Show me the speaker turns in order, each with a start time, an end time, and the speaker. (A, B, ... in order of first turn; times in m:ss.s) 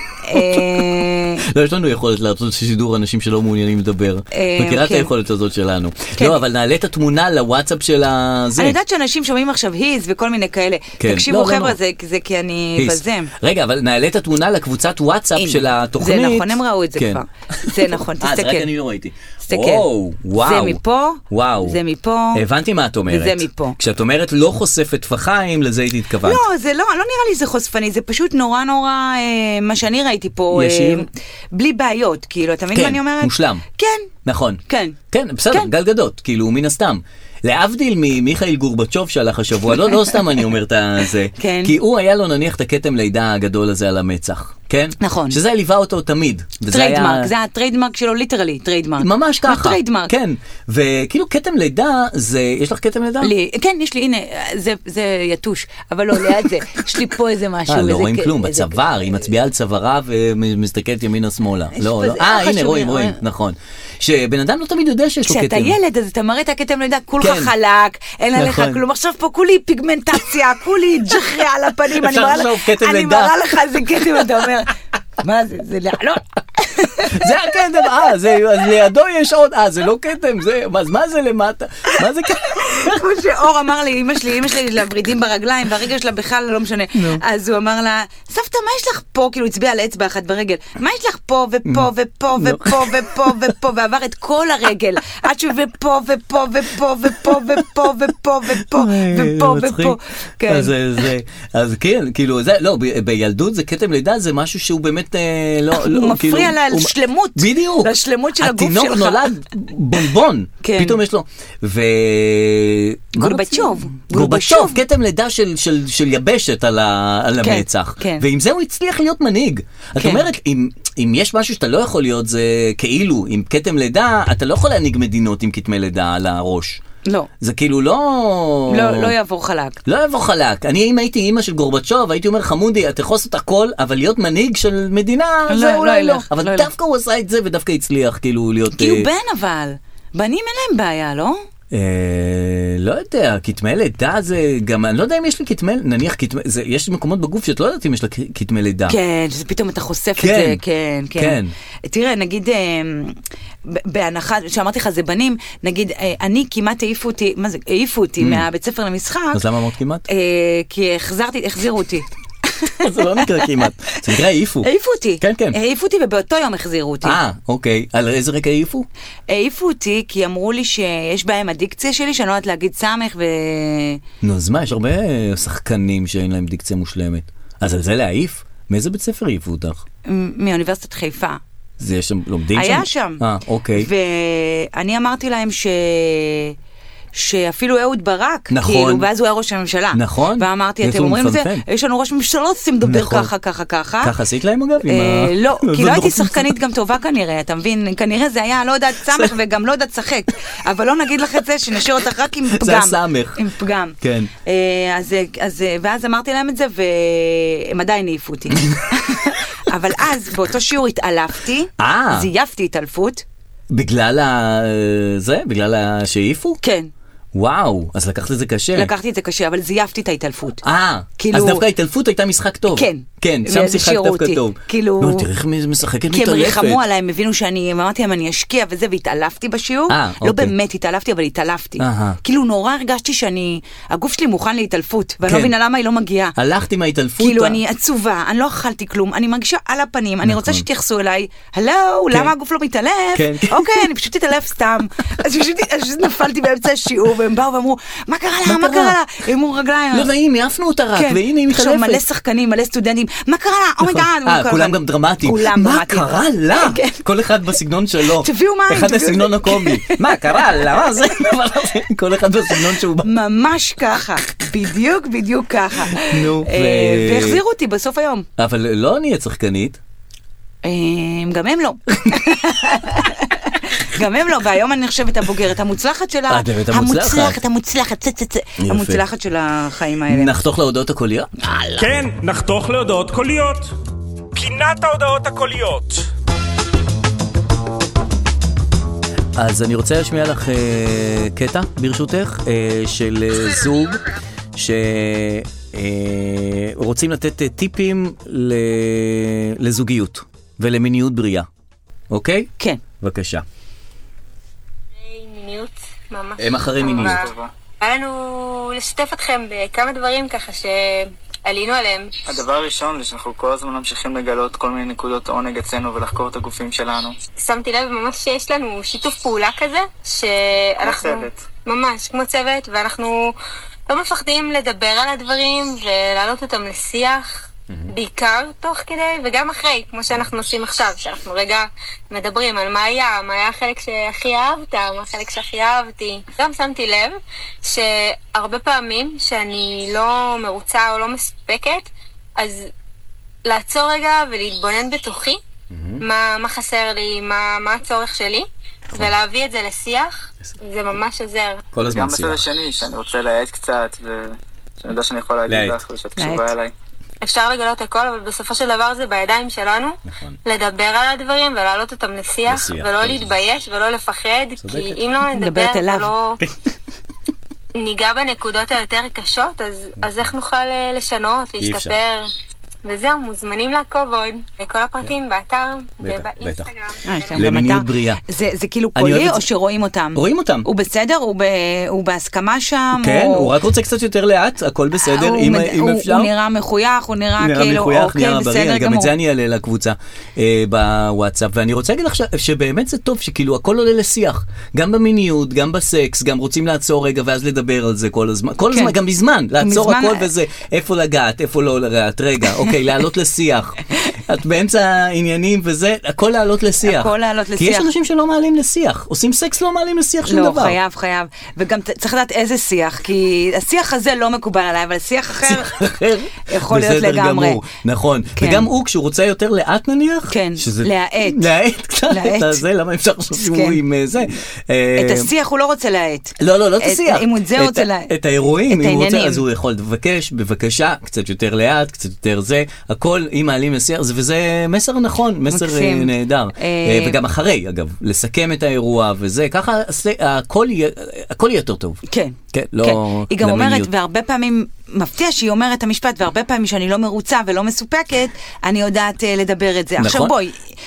0:00.2-0:01.4 A
0:00.3-0:08.8 B
0:04.3-0:05.1 A
0:06.1-0:06.4 A
0:08.6-0:13.3 A
0:11.0-0:11.8 B
0:12.8-0:21.8 B
0:15.4-0:18.7 A
0:19.4-0:22.4 A
0:22.3-0:26.4 B
0:23.1-0:23.8 A
0:26.2-0:34.1 A
0:30.5-0:31.0 B
0:32.7-0:33.6 B
0:34.2-0:47.3 B
0:34.7-0:35.0 A
0:41.4-0:41.8 A
0:45.0-0:45.4 A
0:46.7-0:50.1 A
0:49.0-0:53.3 B
0:53.2-0:58.8 A
0:57.7-1:05.8 B
1:01.7-1:03.2 A
1:05.2-1:17.9 A
1:07.2-1:07.5 B
1:08.3-1:08.8 B
1:11.9-1:14.2 B
1:17.1-1:23.0 B
1:22.5-1:40.7 A
1:26.9-1:27.2 B
1:31.6-1:33.4 B
1:37.3-1:37.5 B
1:38.6-2:06.8 B
1:45.7-1:49.3 A
1:50.6-1:51.0 A
1:53.2-1:54.8 A
1:57.4-1:58.2 A
2:00.0-2:00.3 A
2:07.4-2:09.1 B
2:08.7-2:09.8 A
2:09.8-2:19.1 B
2:15.5-2:16.7 A
2:18.7-2:21.4 A
2:21.7-2:29.0 B
2:28.9-2:33.2 A
2:30.2-2:30.6 B
2:31.2-2:31.5 B
2:33.7-2:39.4 A
2:38.2-2:38.4 B
2:39.3-2:40.0 B
2:40.1-2:44.0 A
2:42.8-2:44.7 B
2:44.6-2:47.2 A
2:45.2-2:45.6 B
2:47.0-2:48.9 B
2:49.3-2:54.0 A
2:54.2-2:59.8 B
3:00.0-3:01.4 A
3:01.8-3:03.9 B
3:02.5-3:03.2 A
3:03.7-3:06.6 A
3:07.1-3:14.1 A
3:08.5-3:09.1 B
3:09.9-3:11.6 B
3:12.8-3:13.3 B
3:14.0-3:16.5 B
3:14.8-3:33.2 A
3:19.1-3:19.3 B
3:22.5-3:23.4 B
3:24.0-3:24.3 B
3:31.8-3:32.3 B
3:33.7-3:36.6 B
3:36.6-3:36.9 A
3:37.3-3:38.9 B
3:38.7-3:40.6 A
3:40.6-3:46.8 B
3:41.2-3:41.6 A
3:42.7-3:45.3 A
3:46.1-3:56.4 A
3:49.9-3:50.5 B
3:51.8-3:52.2 B
3:55.2-3:55.5 B
3:56.4-3:57.6 B
3:57.2-4:10.1 A
4:00.2-4:00.6 B
4:03.1-4:03.9 B
4:08.4-4:09.0 B
4:09.9-4:12.0 B
4:10.9-4:17.0 A
4:13.8-4:23.1 B
4:18.2-4:21.0 A
4:23.0-4:28.3 A
4:25.9-4:27.4 B
4:28.4-4:29.8 B
4:30.6-4:40.4 A
4:36.3-4:37.4 B
4:38.6-4:39.0 B
4:40.1-4:41.3 B
4:41.5-4:43.7 C
4:44.3-4:46.1 C
4:49.4-5:01.5 B
5:02.1-5:03.4 B
5:05.0-5:07.3 D
5:06.4-5:07.3 B
5:06.9-5:07.5 E
5:07.8-5:12.1 D
5:12.3-5:17.1 E
5:17.4-5:23.3 D
5:20.8-5:21.4 E
5:23.9-5:41.9 D
5:42.4-5:42.7 D
5:43.4-5:45.4 D
5:45.7-5:46.0 B
5:46.0-5:51.6 D
5:51.7-5:52.4 B
5:51.8-5:56.7 E
5:55.5-5:55.8 B
5:56.2-5:56.5 A
5:57.2-6:06.4 D
6:00.1-6:00.4 B
6:02.5-6:03.3 B
6:04.6-6:05.0 B
6:05.3-6:06.1 A
6:07.7-6:12.2 D
6:11.6-6:12.0 B
6:12.8-6:17.6 D
6:16.0-6:16.7 B
6:17.0-6:23.5 A
6:17.3-6:18.2 B
6:18.9-6:19.4 B
6:20.1-6:20.7 B
6:23.0-6:26.3 B
6:25.0-6:29.1 A
6:27.4-6:50.8 B
6:38.7-6:39.0 A
6:39.6-6:40.3 A
6:46.8-6:47.9 A
6:50.2-6:55.8 A
6:55.4-7:05.3 B
6:56.5-6:57.6 A
6:58.4-6:58.7 A
7:00.3-7:01.5 A
7:02.1-7:02.6 A
7:03.3-7:03.8 A
7:04.9-7:08.1 A
7:06.4-7:23.9 B
7:08.7-7:09.4 A
7:15.5-7:17.2 A
7:22.1-7:30.7 A
7:30.0-7:30.3 B